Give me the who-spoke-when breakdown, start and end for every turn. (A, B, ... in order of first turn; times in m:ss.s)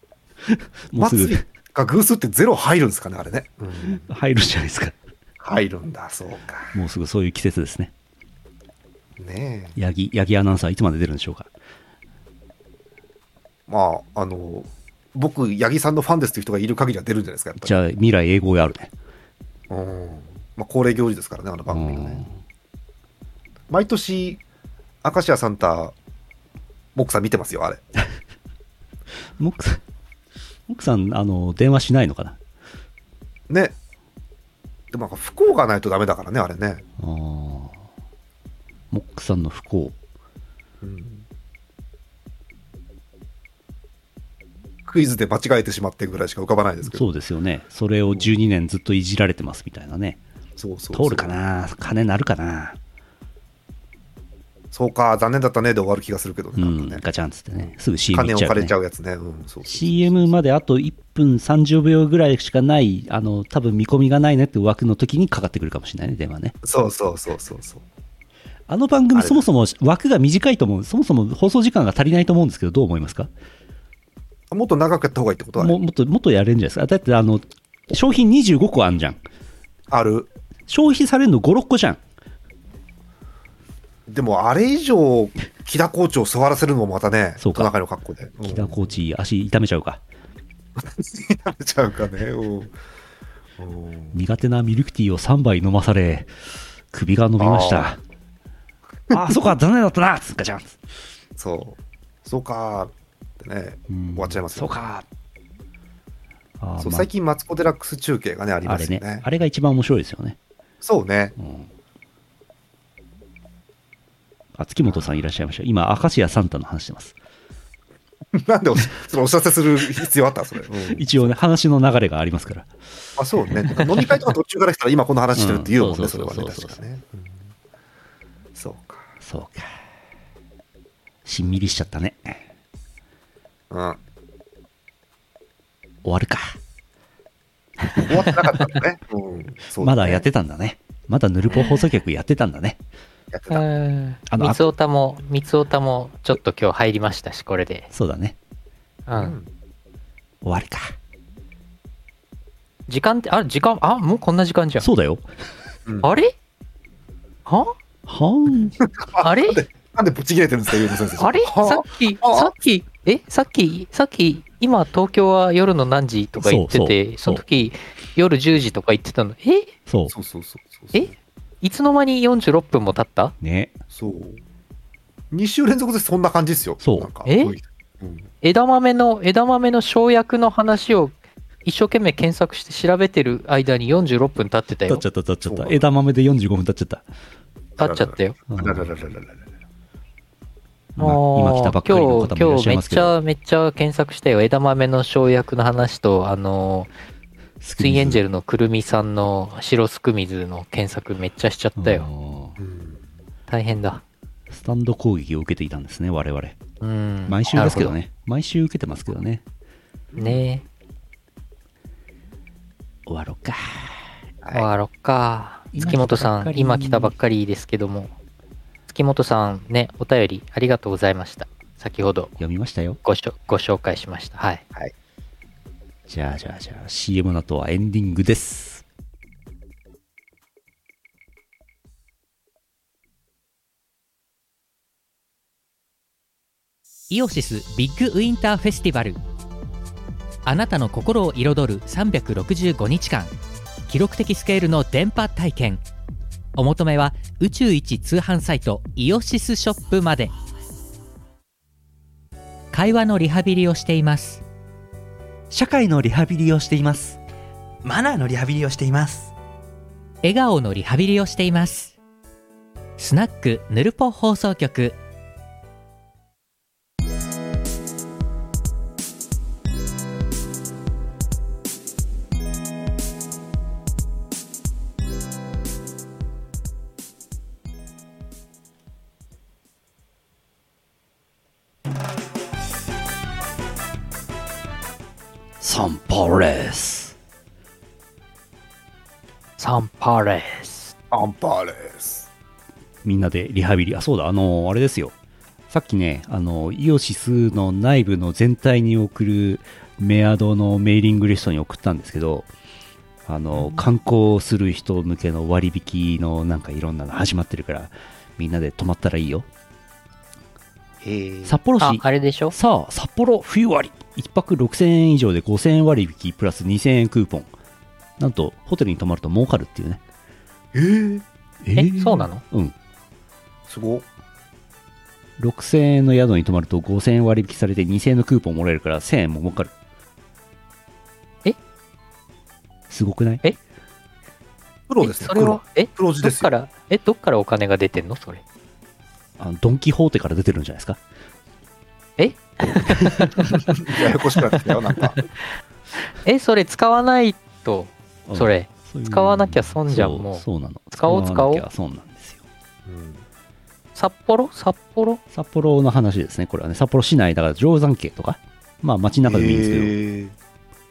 0:00.5-0:01.4 A
0:01.0-0:04.0 B
0:03.9-0:04.9 A
0:05.4-0:06.8 B
0:06.7-0:07.9 A
0:09.2-0:09.8 B
0:09.8-0:11.5 A
0:13.7-0:17.8 B
0:17.6-0:18.9 A
0:19.7-0:22.2 B
0:21.7-0:22.3 A
0:23.7-0:24.4 B
0:25.0-0:25.9 B
0:26.9-0:27.8 B
0:29.4-0:29.8 A
0:30.7-0:32.4 A
0:33.5-0:33.8 B
0:34.9-0:36.8 B
0:37.0-0:37.8 A
0:38.9-0:39.9 A
0:40.8-0:41.2 B
0:44.8-0:47.0 B
0:46.8-0:50.2 A
0:48.1-0:48.3 B
0:50.6-0:51.3 B
0:50.9-0:52.8 A
0:54.7-0:57.0 B
0:56.6-0:58.7 A
0:57.6-1:00.2 B
0:59.6-1:06.5 A
1:06.6-1:07.8 B
1:08.7-1:13.3 A
1:09.1-1:09.4 B
1:14.5-1:15.8 B
1:15.6-1:19.2 A
1:19.9-1:20.3 B
1:20.7-1:22.0 A
1:24.1-1:28.9 B
1:27.4-1:27.7 A
1:28.4-1:30.0 A
1:30.8-1:32.7 B
1:33.6-1:34.2 B
1:34.1-1:36.3 A
1:36.9-1:38.0 A
1:37.4-1:37.9 B
1:39.1-1:39.5 B
1:39.1-1:40.8 A
1:41.4-1:44.8 B
1:43.9-1:45.0 A
1:46.6-1:47.1 A
1:46.8-1:49.2 B
1:48.6-1:50.4 A
1:50.8-1:51.3 B
1:51.4-1:51.7 A
1:54.6-1:57.1 A
1:58.3-2:01.3 B
2:00.8-2:02.7 A
2:03.2-2:07.4 B
2:03.5-2:04.2 A
2:05.3-2:06.8 A
2:08.5-2:09.1 B
2:09.2-2:09.7 A
2:11.2-2:12.4 A
2:13.7-2:14.0 B
2:16.0-2:16.6 A
2:18.0-2:20.2 B
2:19.8-2:22.8 A
2:23.3-2:23.6 B
2:23.5-2:27.9 C
2:24.3-2:24.7 A
2:27.9-2:28.3 A
2:29.1-2:29.4 C
2:29.1-2:29.5 B
2:30.4-2:30.9 A
2:32.9-2:34.9 C
2:34.8-2:35.2 A
2:36.0-2:36.3 C
2:37.4-2:37.7 C
2:38.1-2:38.8 A
2:38.8-2:42.5 B
2:39.2-2:39.6 C
2:41.2-2:49.7 C
2:46.4-2:47.4 A
2:49.9-2:50.1 A
2:50.1-2:51.1 B
2:50.9-2:53.3 C
2:53.4-2:53.8 A
2:53.9-2:54.4 B
2:55.3-2:58.3 B
2:56.8-2:57.1 A
2:57.2-2:57.5 C
2:58.4-3:05.0 C
3:04.9-3:07.0 A
3:05.4-3:05.8 B
3:07.8-3:09.4 B
3:07.8-3:08.3 C
3:08.5-3:08.9 A
3:11.0-3:13.1 A
3:11.0-3:16.9 C
3:17.6-3:18.2 A
3:17.8-3:22.1 C
3:21.8-3:22.6 A
3:22.6-3:23.0 B
3:23.5-3:24.0 C
3:24.5-3:26.6 A
3:26.8-3:27.9 C
3:27.3-3:29.4 A
3:30.1-3:30.4 B
3:30.2-3:30.6 C
3:33.1-3:34.0 A
3:34.4-3:34.7 B
3:34.5-3:38.1 C
3:35.7-3:37.1 A
3:38.9-3:42.3 C
3:42.4-3:43.0 A
3:43.0-3:44.6 C
3:46.1-3:48.8 A
3:57.1-3:59.1 D
4:00.5-4:03.2 D
4:03.9-4:05.8 D
4:06.6-4:10.2 D
4:12.8-4:13.9 D
4:15.5-4:17.2 E
4:16.2-4:17.0 A
4:17.8-4:19.3 E
4:45.6-4:47.1 A
4:49.6-4:50.9 C
4:51.1-4:52.3 B
4:53.0-4:55.1 A
4:55.7-5:02.5 A
5:03.2-5:09.4 A
5:03.5-5:03.8 B
5:11.0-5:11.6 B
5:11.4-5:17.5 A
5:11.8-5:12.5 C
5:18.2-5:20.0 A
5:20.7-5:21.2 B
5:21.6-5:22.7 A
5:21.8-5:22.4 C
5:23.7-5:24.0 B
5:25.4-5:29.7 A
5:32.9-5:33.4 A
5:34.9-5:36.5 B
5:35.0-5:38.4 C
5:39.4-5:41.0 A
5:42.2-5:43.6 C
5:43.7-5:45.2 B
5:46.1-5:51.6 C
5:48.3-5:52.4 A
5:52.8-5:53.2 B
5:53.9-5:55.2 C
5:55.3-6:00.0 A
5:59.2-6:00.3 B